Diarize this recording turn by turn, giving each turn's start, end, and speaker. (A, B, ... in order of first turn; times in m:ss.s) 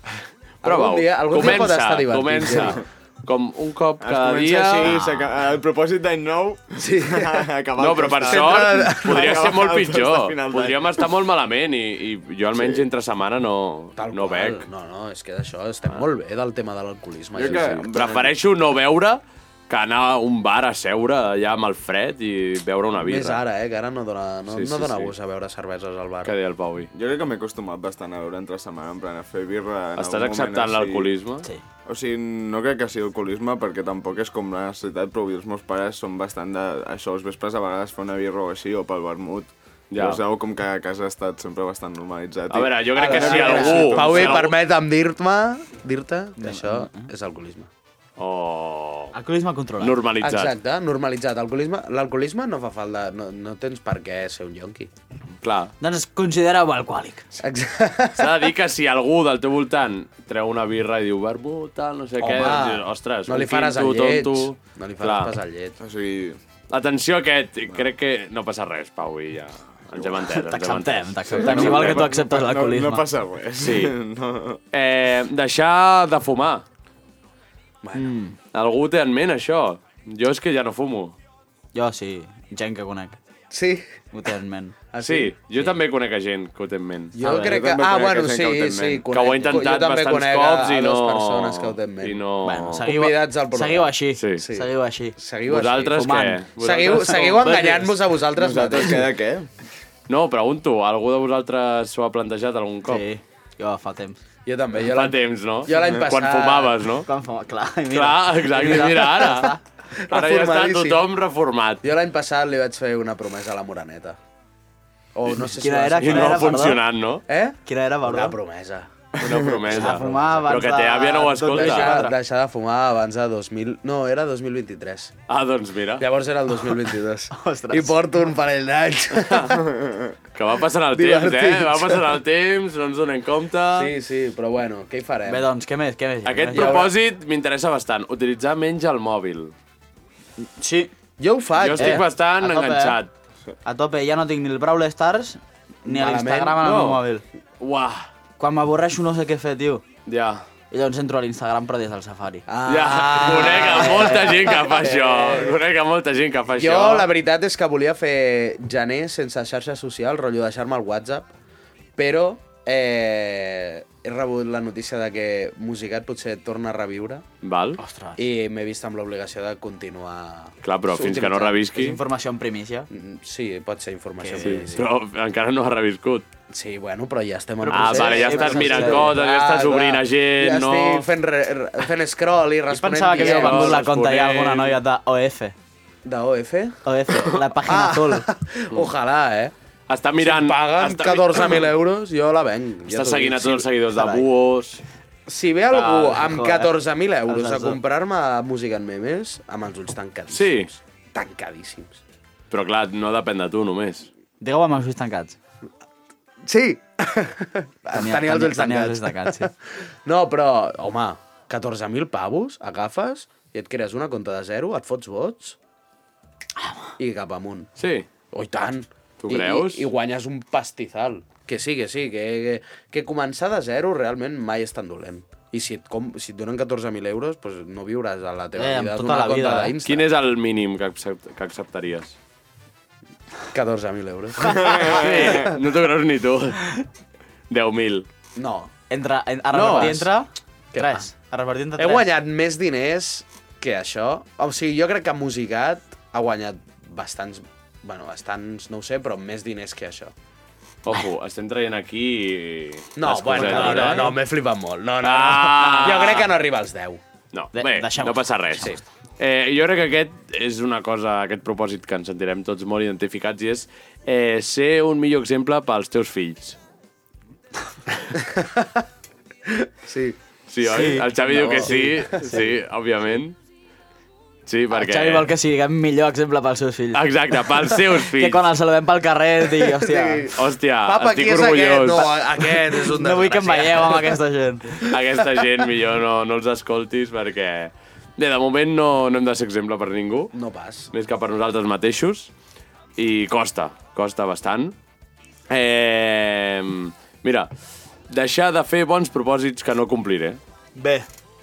0:00.6-0:02.8 A
0:00.6-0:05.0 B
0:04.0-0:11.0 C
0:04.9-0:05.3 D
0:06.8-0:07.5 A
0:07.8-0:14.6 B
0:08.3-0:09.4 A
0:12.5-0:12.8 C
0:14.0-0:18.3 A
0:17.4-0:18.3 C
0:17.4-0:23.4 B
0:23.0-0:26.3 A
0:24.5-0:25.1 B
0:26.2-0:26.9 B
0:26.9-0:31.1 C
0:30.0-0:31.5 B
0:31.9-0:44.5 C
0:39.9-0:40.2 B
0:42.5-0:44.5 B
0:43.0-0:47.7 A
0:46.4-0:47.1 D
0:48.2-0:49.1 B
0:49.1-0:50.0 D
0:49.8-0:50.5 B
0:50.2-0:54.9 A
0:55.4-0:55.7 B
0:55.8-0:57.3 D
0:57.4-0:58.5 A
0:58.2-1:05.3 B
1:02.2-1:05.8 A
1:05.8-1:06.4 C
1:06.7-1:12.1 B
1:10.0-1:10.2 C
1:10.3-1:13.1 D
1:11.3-1:14.6 C
1:13.6-1:14.0 B
1:14.7-1:16.6 B
1:17.8-1:18.1 A
1:18.0-1:18.4 D
1:18.5-1:21.2 B
1:21.7-1:23.2 D
1:23.5-1:23.9 A
1:24.1-1:24.8 D
1:24.9-1:25.3 A
1:25.0-1:27.1 B
1:27.1-1:32.2 A
1:27.2-1:27.6 D
1:27.2-1:29.1 C
1:29.1-1:32.9 B
1:32.4-1:35.2 D
1:32.8-1:39.1 A
1:34.2-1:34.4 B
1:35.5-1:37.6 B
1:36.0-1:37.9 D
1:38.4-1:39.5 C
1:40.1-1:43.0 B
1:42.9-1:44.2 D
1:44.5-1:46.8 A
1:44.9-1:47.1 B
1:47.0-1:49.6 D
1:47.9-1:49.6 B
1:50.0-1:51.0 A
1:50.1-1:51.8 B
1:51.8-1:54.2 A
1:55.2-1:56.6 A
1:55.3-1:56.8 D
1:56.0-1:57.2 B
1:57.3-1:58.9 A
1:57.6-1:58.4 D
1:59.2-2:02.0 B
1:59.2-1:59.6 C
1:59.7-2:02.2 D
1:59.9-2:00.2 A
2:01.5-2:05.1 A
2:05.3-2:06.0 B
2:06.0-2:09.7 A
2:07.3-2:08.0 D
2:09.2-2:09.5 B
2:09.7-2:10.1 C
2:10.4-2:13.9 B
2:10.9-2:12.2 A
2:13.7-2:15.5 A
2:15.3-2:16.8 D
2:16.2-2:19.5 B
2:16.5-2:16.9 A
2:20.4-2:20.9 D
2:21.2-2:22.0 A
2:21.6-2:23.1 B
2:21.8-2:23.0 D
2:23.6-2:27.2 D
2:25.8-2:26.6 A
2:26.6-2:27.0 B
2:27.6-2:28.1 B
2:28.4-2:29.8 D
2:30.1-2:30.4 B
2:30.7-2:32.4 D
2:32.5-2:35.6 A
2:32.7-2:37.1 B
2:33.5-2:34.5 D
2:36.6-2:41.3 A
2:42.0-2:47.2 A
2:47.4-2:47.8 B
2:47.8-2:48.2 D
2:48.2-2:51.6 A
2:50.6-2:52.0 B
2:51.7-2:52.9 D
2:52.9-2:54.8 A
2:54.2-2:54.8 D
2:54.4-2:56.3 B
2:56.5-3:03.8 A
2:57.7-2:59.1 D
2:57.7-3:01.1 B
3:02.7-3:05.6 D
3:03.2-3:04.8 B
3:06.0-3:06.8 A
3:06.8-3:08.3 D
3:07.6-3:09.5 A
3:09.9-3:11.7 B
3:10.2-3:13.7 A
3:12.9-3:14.8 B
3:13.9-3:14.3 D
3:15.3-3:22.0 A
3:15.7-3:16.7 D
3:17.3-3:17.8 D
3:20.3-3:20.7 B
3:22.5-3:24.1 B
3:24.4-3:25.4 D
3:26.4-3:29.5 A
3:27.9-3:29.5 D
3:30.0-3:35.6 A
3:36.6-3:36.9 D
3:37.0-3:37.7 A
3:37.8-3:38.1 B
3:38.3-3:50.1 A
3:39.2-3:39.9 B
3:48.6-3:49.8 D
3:49.8-3:52.2 B
3:53.5-3:55.5 A
3:54.6-3:55.5 C
3:54.9-3:56.8 B
3:57.5-3:58.1 B
3:58.4-3:58.7 A
3:58.9-4:02.1 D
3:59.5-4:00.1 A
3:59.6-4:00.1 B
4:00.7-4:01.1 A
4:01.8-4:10.1 A
4:10.8-4:14.1 B
4:13.0-4:17.0 A
4:13.3-4:14.2 D
4:15.0-4:16.3 B
4:15.7-4:16.0 D
4:17.3-4:26.6 B
4:17.5-4:18.8 D
4:28.2-4:28.8 A
4:29.5-4:30.2 A
4:30.5-4:33.4 B
4:30.6-4:32.5 D
4:31.3-4:32.2 A
4:34.5-4:35.3 B
4:34.7-4:40.3 D
4:36.9-4:38.5 B
4:39.6-4:44.1 A
4:40.3-4:42.1 B
4:42.6-4:44.8 D
4:44.8-4:50.3 B
4:50.3-4:50.9 A
4:50.9-4:52.3 B
4:53.0-4:54.8 B
4:55.5-4:57.5 B
4:58.1-5:00.4 B
5:00.8-5:01.1 D